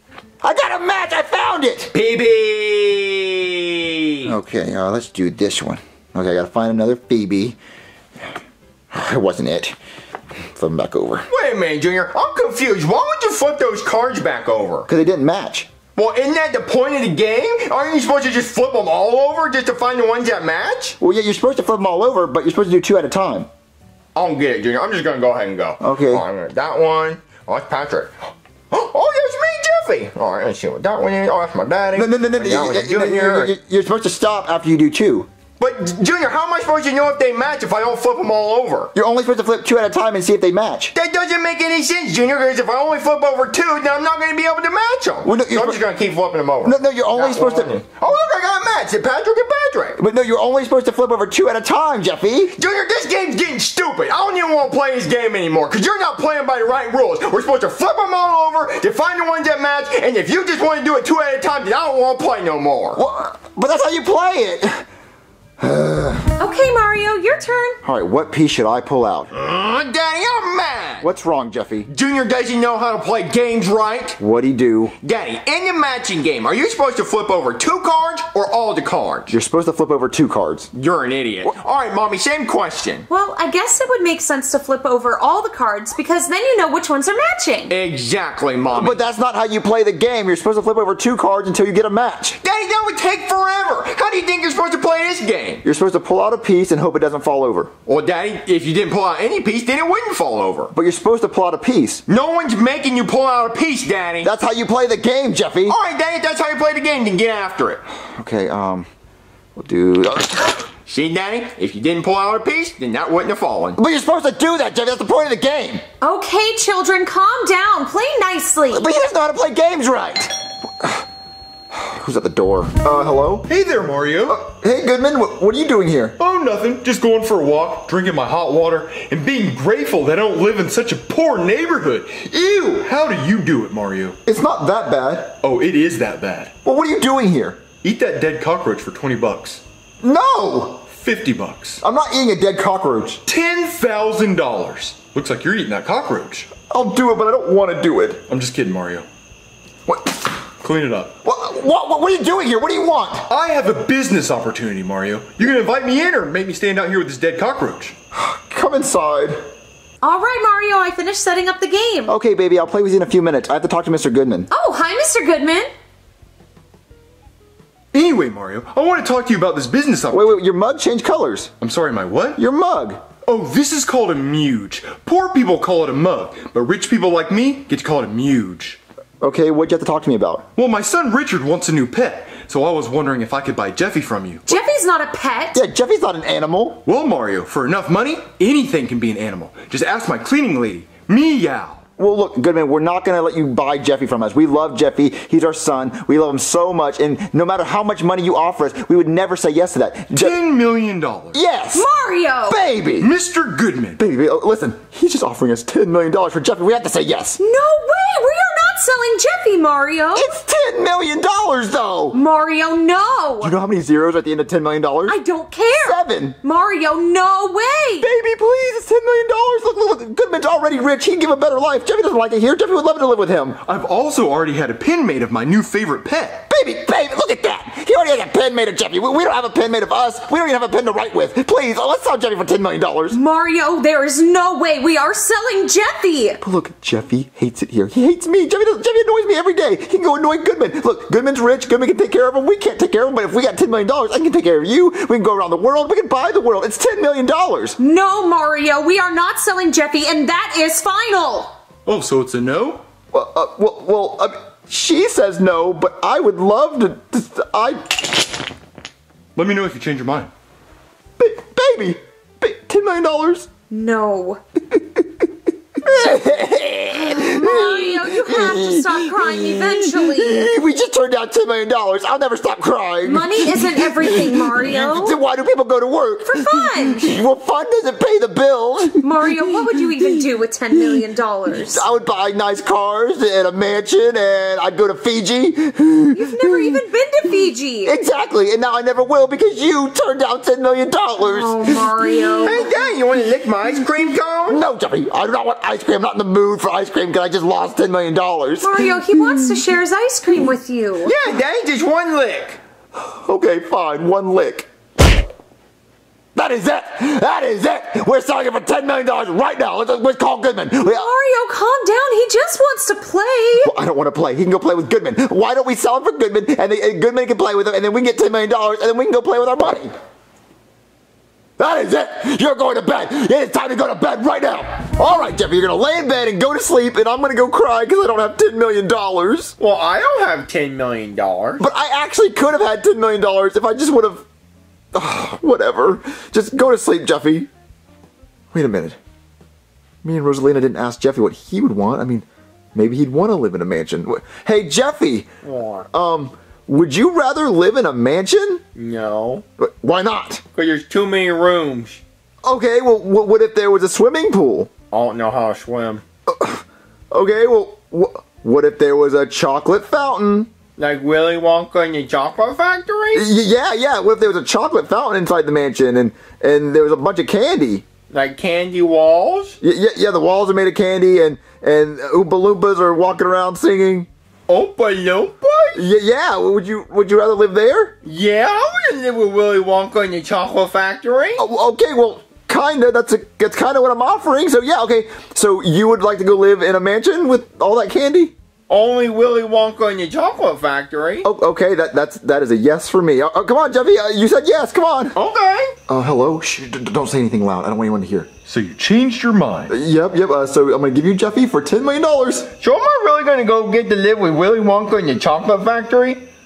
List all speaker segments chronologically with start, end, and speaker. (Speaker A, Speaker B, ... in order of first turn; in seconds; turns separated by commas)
Speaker A: 0.4-1.9, Speaker B: 1.9-4.4, Speaker A: 4.3-7.6, Speaker A: 8.9-9.8, Speaker A: 10.5-11.3, Speaker B: 11.3-14.9, Speaker A: 14.9-15.7, Speaker B: 16.0-21.0, Speaker A: 21.0-23.5, Speaker B: 24.1-33.5, Speaker A: 25.8-26.3, Speaker A: 31.9-35.3, Speaker B: 35.6-38.9, Speaker A: 38.9-40.9, Speaker B: 40.9-50.0, Speaker A: 45.2-45.8, Speaker A: 46.6-47.8, Speaker A: 50.0-52.5, Speaker B: 52.5-63.0, Speaker A: 63.0-64.8, Speaker A: 65.6-66.3, Speaker C: 66.4-67.8, Speaker A: 67.8-69.3, Speaker B: 69.3-71.1, Speaker A: 71.0-71.9, Speaker B: 71.9-74.2, Speaker A: 74.2-74.9, Speaker B: 75.0-79.3, Speaker A: 79.3-80.7, Speaker B: 80.7-83.1, Speaker C: 83.1-87.8, Speaker B: 87.7-89.0, Speaker A: 88.7-92.4, Speaker B: 92.4-95.6, Speaker A: 95.6-97.7, Speaker B: 97.9-100.7, Speaker A: 100.7-102.0, Speaker B: 102.1-104.3, Speaker A: 104.2-105.8, Speaker B: 105.7-107.8, Speaker A: 107.9-108.9, Speaker A: 109.6-110.6, Speaker B: 110.9-113.8, Speaker A: 113.8-115.8, Speaker C: 116.0-119.0, Speaker A: 118.7-121.0, Speaker A: 121.7-123.5, Speaker D: 123.5-124.4, Speaker A: 124.3-126.2, Speaker D: 126.2-134.2, Speaker A: 134.3-135.4, Speaker D: 135.4-136.5, Speaker A: 136.7-137.6, Speaker D: 137.8-139.6, Speaker A: 140.0-140.8, Speaker D: 140.9-141.8, Speaker A: 141.8-143.2, Speaker D: 143.3-146.5, Speaker A: 146.7-148.2, Speaker D: 148.3-149.1, Speaker A: 149.9-150.3, Speaker D: 150.6-151.1, Speaker A: 151.2-153.3, Speaker D: 153.3-158.0, Speaker A: 158.1-159.4, Speaker C: 160.0-162.1, Speaker A: 162.1-164.5, Speaker C: 164.5-165.7, Speaker D: 167.9-170.4, Speaker A: 170.1-171.5, Speaker D: 171.6-172.4, Speaker A: 172.4-173.1, Speaker D: 173.2-178.8, Speaker A: 179.2-180.5, Speaker D: 180.6-184.6, Speaker C: 184.5-185.6, Speaker A: 185.5-186.8, Speaker D: 186.9-191.8, Speaker A: 192.0-200.4, Speaker D: 200.2-201.4, Speaker A: 201.3-201.9, Speaker C: 201.7-202.6, Speaker A: 202.5-203.1, Speaker D: 203.0-204.0, Speaker A: 204.0-207.4, Speaker C: 207.4-210.3, Speaker A: 210.2-212.2, Speaker C: 212.1-213.6, Speaker A: 213.4-215.2, Speaker C: 215.1-218.1, Speaker A: 215.8-216.4, Speaker A: 218.0-223.6, Speaker D: 223.7-226.4, Speaker A: 226.5-233.2, Speaker C: 233.1-236.4, Speaker A: 236.4-247.8, Speaker C: 247.8-251.5, Speaker D: 251.9-252.8, Speaker A: 253.1-258.3, Speaker D: 259.4-260.3, Speaker A: 261.2-263.5, Speaker C: 263.7-264.4, Speaker A: 264.7-265.3, Speaker A: 265.8-279.6, Speaker C: 266.9-270.5, Speaker C: 273.0-275.2, Speaker C: 276.2-277.1, Speaker C: 279.0-281.9, Speaker A: 281.5-286.8, Speaker C: 286.1-288.0, Speaker A: 287.9-292.5, Speaker C: 291.2-292.7, Speaker B: 292.4-294.6, Speaker A: 294.5-299.4, Speaker C: 298.6-301.1, Speaker B: 301.0-302.6, Speaker A: 302.9-304.7, Speaker A: 306.4-311.1, Speaker C: 310.8-313.7, Speaker A: 313.6-319.9, Speaker A: 321.6-329.6, Speaker B: 329.6-331.6, Speaker A: 331.6-334.3, Speaker A: 334.9-337.5, Speaker A: 338.5-339.0, Speaker A: 340.0-345.3, Speaker B: 345.4-345.9, Speaker A: 345.9-348.6, Speaker B: 348.8-349.4, Speaker A: 349.6-350.4, Speaker B: 350.5-352.0, Speaker A: 352.4-354.7, Speaker B: 354.9-356.0, Speaker A: 356.3-360.5, Speaker B: 360.8-363.3, Speaker A: 363.1-367.9, Speaker B: 368.1-369.6, Speaker A: 369.6-374.1, Speaker B: 374.5-375.8, Speaker A: 375.8-377.9, Speaker B: 378.0-381.4, Speaker A: 381.4-388.3, Speaker B: 388.7-391.3, Speaker A: 391.2-395.2, Speaker B: 395.1-395.8, Speaker A: 395.9-398.3, Speaker D: 398.5-399.8, Speaker A: 399.7-402.5, Speaker B: 402.6-406.3